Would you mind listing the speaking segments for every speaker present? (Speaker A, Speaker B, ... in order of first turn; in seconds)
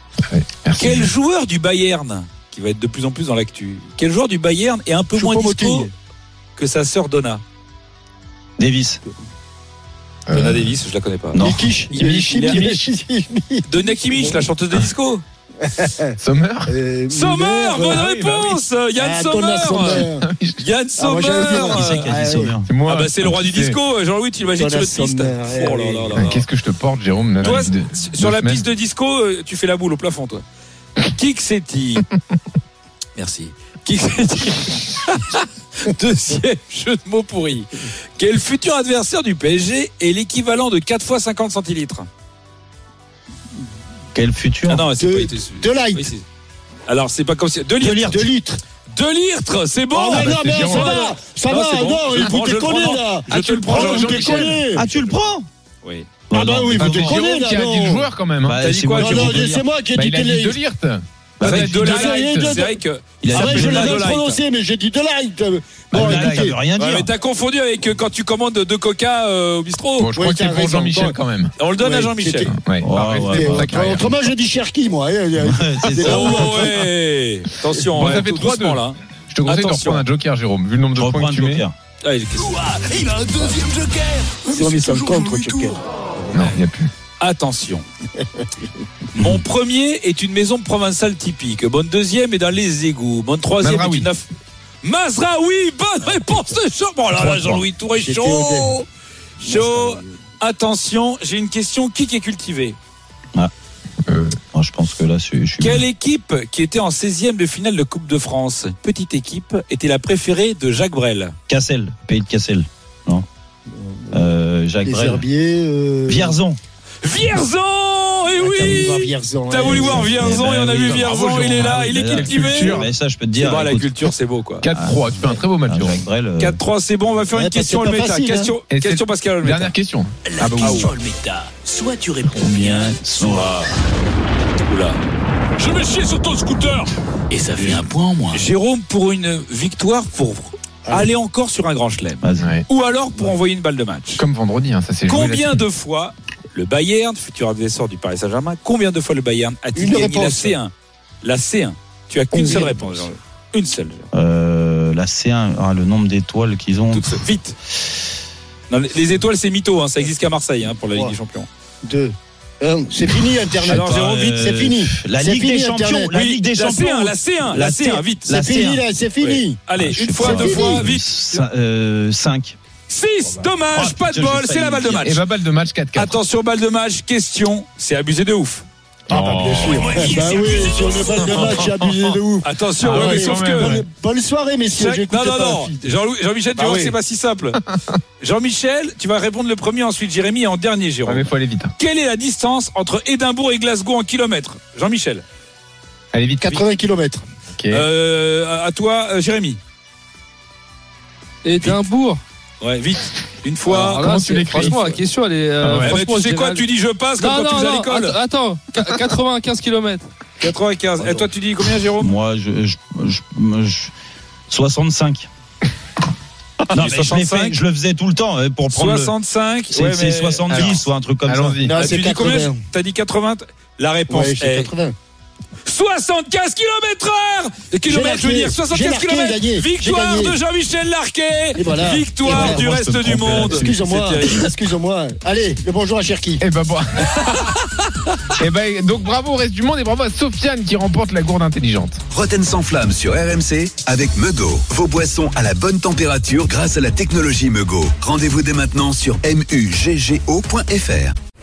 Speaker A: 0.3-1.1, 10.3-10.8, 12.3-12.7, 16.2-16.7, 20.2-20.6, 22.6-23.8, 26.1-28.7, 50.1-51.0, 53.4-54.5, 56.7-58.6, 59.9-62.6, 65.9-66.5, 70.0-71.5, 72.5-73.0, 73.5-74.1, 77.9-81.6, 86.3-86.9, 93.6-94.1, 104.1-104.4, 120.8-122.9, 124.6-126.0, 128.7-130.9, 144.2-145.6, 175.0-176.2, 179.1-179.9, 181.1-182.1, 182.8-183.8, 191.1-191.7, 196.1-196.6, 197.6-197.9, 203.9-205.0, 205.6-206.0, 221.3-221.7, 236.4-237.6, 238.4-242.0
Speaker B: 0.8-5.9, 6.5-7.4, 10.3-12.7, 13.7-15.2, 17.1-22.1, 22.9-26.5, 27.4-30.4, 31.0-32.1, 33.1-42.1, 44.7-46.2, 46.9-48.3, 48.9-55.2, 55.8-56.1, 58.6-59.4, 61.4-64.4, 66.8-70.1, 71.6-73.4, 76.0-80.0, 82.0-83.1, 87.2-87.8, 89.1-94.3, 94.8-98.8, 99.4-102.8, 105.6-111.3, 117.0-124.7, 126.4-129.7, 130.6-130.9, 132.5-133.6, 134.6-135.0, 136.2-136.8, 138.3-144.2, 145.1-154.1, 156.9-157.6, 158.7-161.5, 163.7-164.3, 166.1-168.3, 169.2-171.4, 172.9-175.2, 175.9-178.7, 179.7-181.6, 182.4-183.8, 184.7-187.6, 188.2-195.2, 197.7-199.6, 202.6-204.8, 205.8-208.2, 210.4-212.1, 216.7-217.6, 218.7-220.8, 221.7-224.7, 225.6-234.5
Speaker C: 5.1-5.9, 11.3-14.4, 15.6-16.1, 16.7-18.1, 19.0-20.3, 21.0-22.6, 24.5-26.2, 45.0-46.1, 47.8-48.6, 49.9-54.8, 56.3-58.1, 58.9-60.6, 61.6-62.8, 63.3-66.6, 70.1-71.2, 71.7-76.7, 84.4-85.8, 97.2-98.8, 99.4-100.1, 114.8-116.4, 118.3-120.4, 127.3-128.5, 140.8-141.1, 149.7-150.6, 152.3-153.0, 161.8-166.1, 168.3-169.6, 170.2-170.8, 179.1-185.9, 186.6-186.9, 196.4-197.2, 221.6-222.6, 224.1-224.9, 227.8-230.4, 231.5-232.6, 233.2-236.4
Speaker D: 8.6-9.0, 11.3-11.7, 17.9-18.6, 21.6-22.7, 44.1-44.8, 47.8-48.3, 53.9-55.5, 56.3-57.2, 58.4-59.6, 61.4-61.8, 63.2-64.1, 65.9-67.1, 72.8-74.1, 75.3-76.7, 81.0-81.7, 104.5-105.8, 111.5-113.2, 114.1-115.2, 116.0-116.6, 119.6-123.9, 124.7-126.6, 132.3-133.5, 142.2-142.5, 154.1-157.2, 163.6-168.8, 169.8-172.6, 173.7-175.1, 212.0-213.9, 214.5-215.3, 216.7-219.1, 219.7-221.6, 232.2-233.7
Speaker E: 82.6-84.4, 130.3-132.8, 137.3-138.4
Speaker F: 201.4-202.2, 203.7-206.6, 207.2-210.1
Speaker G: 242.1-251.1